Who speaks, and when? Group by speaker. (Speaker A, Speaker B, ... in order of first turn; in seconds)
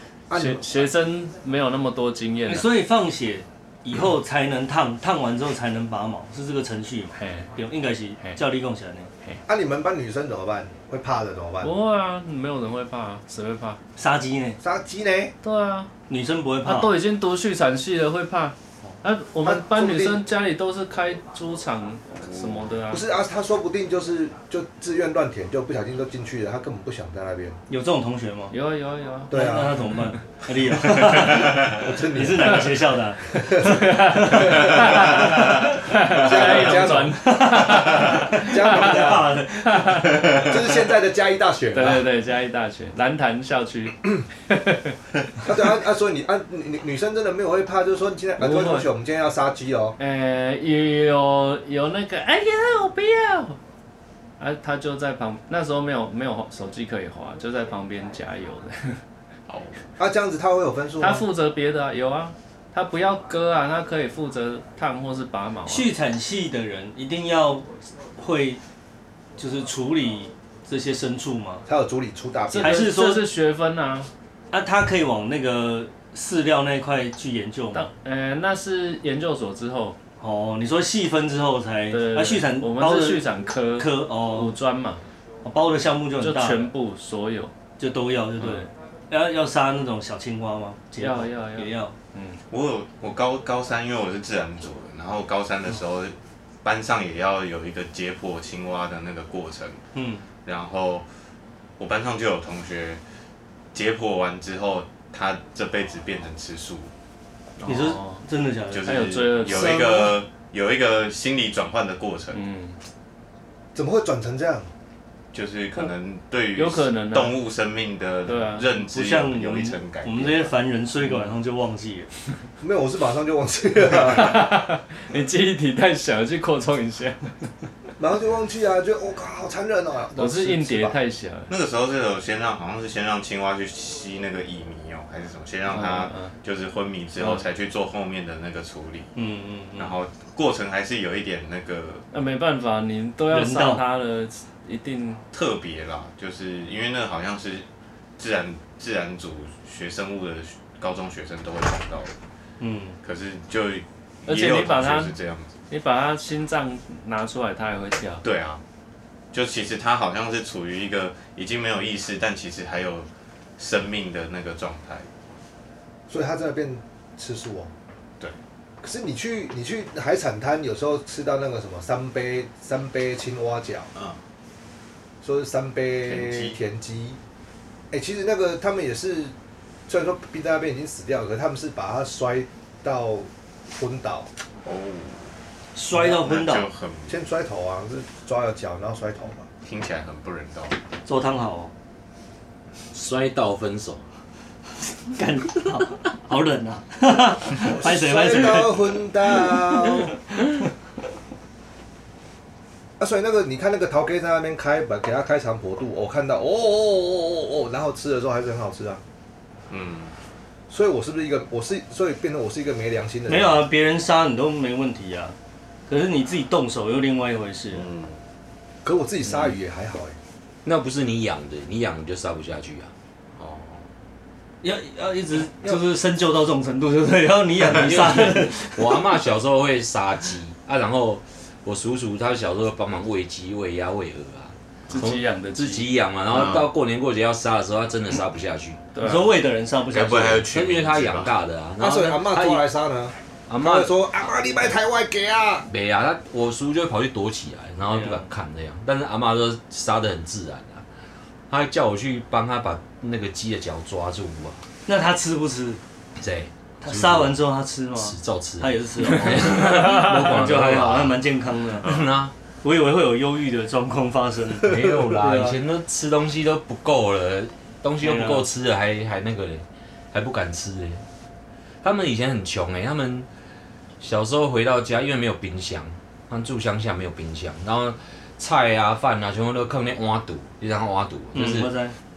Speaker A: 0.3-0.7, 9.5-11.7, 14.6-15.3, 19.4-20.2, 22.9-27.6, 29.3-30.1, 31.0-32.8, 33.4-39.3, 40.2-42.1, 45.4-50.0, 60.0-61.2, 71.7-73.0, 109.7-110.1, 113.8-114.7, 122.6-124.6, 128.0-131.0, 166.1-167.7, 168.8-173.9, 175.2-177.2, 177.9-179.3, 179.9-184.3, 187.1-189.5, 197.6-200.2, 203.0-209.0, 210.7-213.7, 218.8-220.2, 241.8-245.7
Speaker B: 0.3-2.7, 7.1-7.5, 11.6-13.8, 15.4-15.9, 16.6-23.0, 28.5-29.4, 33.5-40.3, 41.7-45.0, 48.4-48.9, 50.0-53.6, 54.4-59.0, 61.0-65.9, 72.5-74.1, 77.7-80.0, 81.9-85.0, 86.2-87.5, 91.0-92.4, 107.6-108.2, 108.8-109.9, 112.3-112.8, 116.5-117.4, 118.3-118.7, 123.9-127.5, 130.1-131.5, 135.7-136.3, 142.1-145.2, 154.2-155.1, 155.7-158.2, 234.9-235.9, 238.9-239.3, 259.8-260.1
Speaker C: 2.5-9.1, 14.0-14.6, 16.1-16.9, 27.7-28.5, 29.3-35.6, 37.1-40.6, 65.7-68.6, 69.4-71.7, 72.6-73.2, 74.5-77.9, 80.2-84.5, 85.4-86.7, 87.8-91.9, 99.9-100.2, 107.7-109.0, 118.9-122.1, 139.2-140.0, 143.3-143.8, 152.6-153.0, 185.8-186.7, 191.1-191.7, 195.1-200.0, 213.3-215.4, 215.9-217.9, 224.6-229.0, 239.0-240.5, 247.9-248.2, 254.9-255.8, 256.8-261.9, 262.6-265.6, 268.0-268.5, 281.3-282.0
Speaker D: 22.2-22.7, 59.5-59.8, 92.5-99.8, 100.4-101.1, 101.8-103.0, 103.7-106.9, 108.7-112.4, 115.3-120.5, 131.5-139.1, 139.8-142.1, 145.3-147.7, 148.2-152.1, 153.0-155.5, 158.2-158.6, 159.3-165.1, 176.0-176.6, 184.6-185.3, 186.0-187.2, 189.6-190.8, 209.7-210.1, 217.8-218.2, 223.4-223.9, 236.3-236.7, 239.9-241.3, 261.8-262.1
Speaker E: 192.9-194.0, 220.6-222.9, 227.6-238.8, 240.5-242.7, 243.5-243.9, 245.7-250.8, 251.5-254.6, 256.2-257.4, 258.0-261.2, 261.8-262.3, 264.6-271.0, 271.8-273.3, 274.0-281.7